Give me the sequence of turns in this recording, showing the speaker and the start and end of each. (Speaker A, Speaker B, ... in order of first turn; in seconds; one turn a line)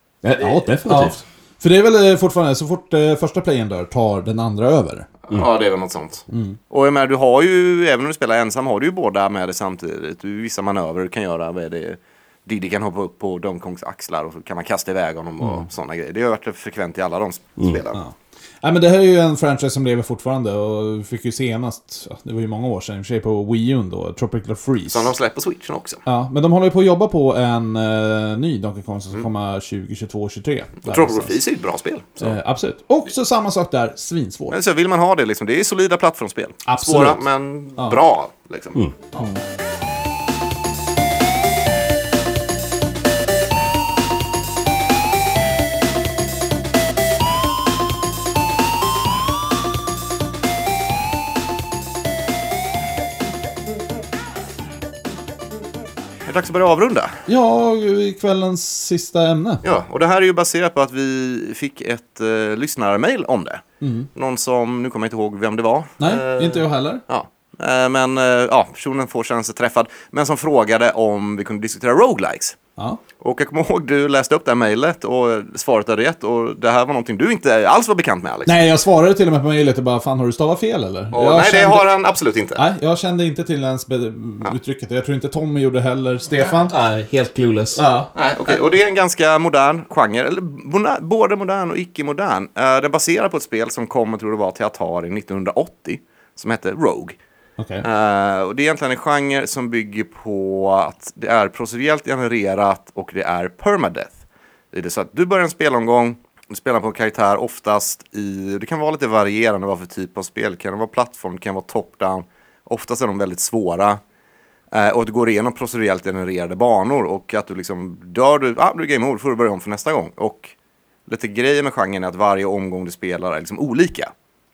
Speaker A: 0.2-1.2
Speaker B: 0.8-5.1
Speaker C: 5.3-18.0
Speaker B: 6.3-6.6
Speaker B: 17.9-25.1
Speaker C: 24.9-26.0
Speaker B: 26.1-31.4
Speaker C: 30.8-32.3
Speaker B: 32.2-34.6
Speaker C: 34.5-38.8
Speaker B: 36.6-37.2
Speaker C: 56.2-57.2
Speaker B: 57.3-59.6
Speaker C: 59.6-63.6
Speaker B: 63.8-64.1
Speaker C: 64.1-72.6
Speaker B: 66.0-67.0
Speaker C: 73.2-78.6
Speaker B: 78.5-81.9
Speaker C: 81.1-82.6
Speaker B: 82.5-86.7
Speaker A: 86.7-87.8
Speaker B: 87.8-88.1
Speaker C: 88.1-97.2
Speaker B: 97.6-97.8
Speaker C: 97.8-104.2
Speaker C: 104.7-114.0
Speaker C: 114.7-120.5
Speaker C: 121.1-124.1